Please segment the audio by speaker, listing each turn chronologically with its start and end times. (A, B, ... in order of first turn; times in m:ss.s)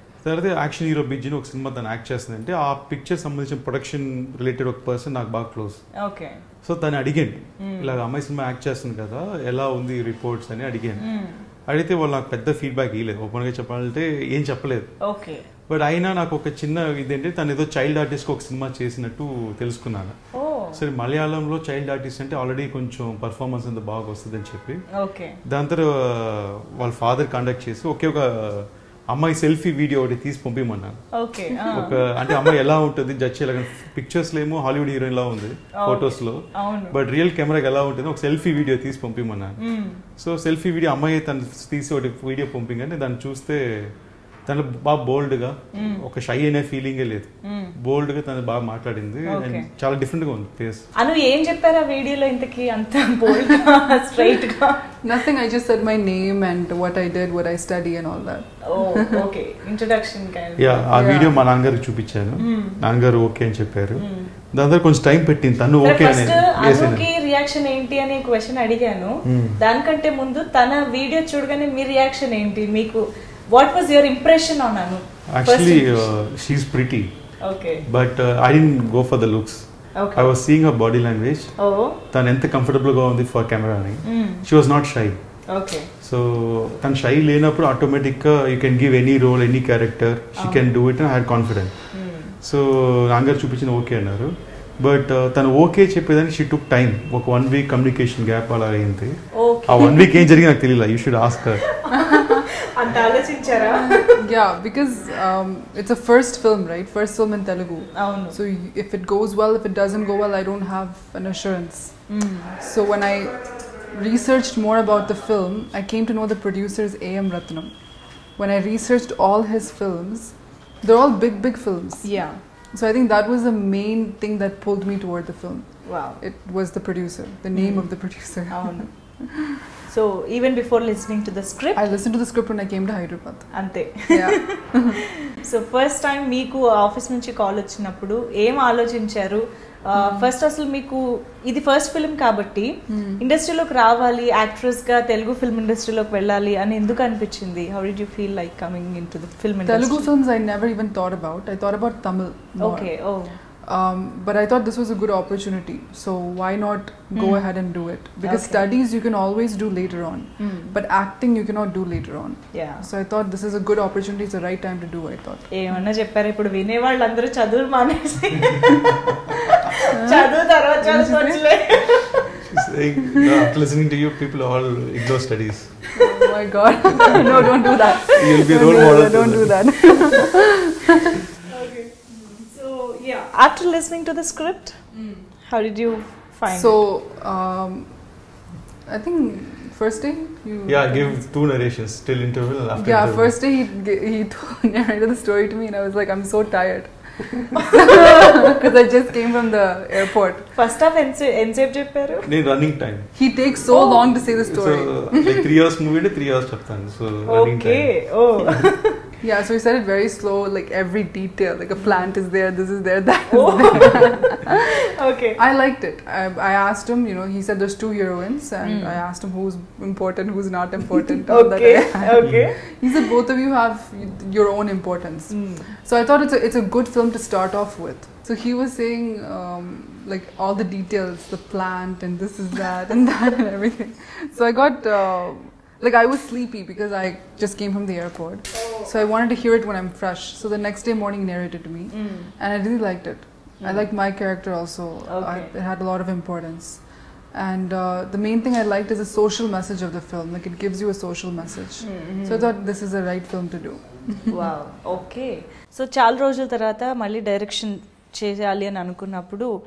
0:00.2-0:05.8 A
0:06.0-0:06.4 B
0:06.6-0:11.0 A
0:07.6-0:08.0 B
0:11.0-0:11.4 B
0:11.7-0:14.9 A
0:15.0-0:15.4 B
0:15.7-0:20.2 A
0:20.3-0:20.8 B
0:20.7-0:24.8 A
0:24.9-0:25.4 B
0:25.4-0:31.0 A
0:31.1-0:32.0 B
0:31.5-0:31.9 C
0:31.7-0:39.6 A
0:35.8-0:37.0 B
0:39.6-0:40.0 B
0:40.2-0:43.9 A
0:44.4-0:50.8 A
0:45.7-0:46.0 B
0:47.4-0:47.8 B
0:49.3-0:49.7 B
0:51.0-0:54.9 B
0:53.4-0:53.7 C
0:55.0-0:59.2 C
0:58.7-1:00.8 B
1:00.6-1:07.0 A
1:00.9-1:01.4 C
1:02.4-1:02.8 B
1:04.0-1:04.3 B
1:05.8-1:16.1 B
1:09.2-1:09.6 A
1:15.3-1:17.1 A
1:17.4-1:17.8 B
1:17.8-1:25.2 A
1:20.0-1:20.3 B
1:21.6-1:22.0 B
1:24.0-1:24.4 B
1:25.5-1:25.9 B
1:26.0-1:31.7 A
1:30.4-1:30.6 B
1:31.9-1:32.4 B
1:32.4-1:41.6 A
1:39.3-1:40.0 B
1:41.8-1:44.2 B
1:41.9-1:42.4 C
1:43.8-1:52.0 C
1:47.9-1:48.4 B
1:52.1-1:52.6 B
1:52.6-1:57.7 C
1:58.4-2:02.2 C
2:02.0-2:02.4 B
2:02.7-2:09.5 C
2:05.8-2:06.2 B
2:07.5-2:08.9 B
2:09.8-2:11.8 B
2:11.8-2:13.5 C
2:13.5-2:30.1 B
2:14.1-2:15.0 C
2:19.9-2:20.3 C
2:22.9-2:23.2 C
2:29.6-2:33.0 C
2:32.6-2:33.4 B
2:33.6-2:45.6 C
2:37.1-2:37.5 B
2:38.2-2:38.7 B
2:40.4-2:40.8 B
2:42.5-2:42.8 B
2:45.5-2:52.4 B
2:49.9-2:50.3 C
2:50.8-2:51.4 C
2:52.4-2:55.8 A
2:53.0-2:53.5 C
2:55.9-3:01.1 C
2:56.9-2:57.8 B
2:57.1-2:57.5 A
2:58.0-2:59.6 A
2:58.4-2:58.8 B
3:01.4-3:04.8 B
3:04.9-3:05.2 C
3:05.4-3:06.8 B
3:06.5-3:08.2 C
3:08.8-3:11.2 C
3:10.6-3:13.4 A
3:12.8-3:20.5 C
3:20.5-3:22.3 B
3:22.2-3:23.1 A
3:23.1-3:25.5 C
3:23.7-3:24.0 B
3:24.1-3:28.1 A
3:27.3-3:29.0 B
3:29.2-3:34.7 C
3:33.3-3:35.4 B
3:35.4-4:14.5 C
3:38.6-3:39.0 B
3:41.3-3:42.6 B
3:42.2-3:42.5 A
3:45.3-3:45.7 B
3:58.6-3:58.9 B
4:01.9-4:02.3 B
4:03.6-4:03.8 B
4:05.1-4:05.5 B
4:11.8-4:12.5 B
4:14.3-4:19.5 B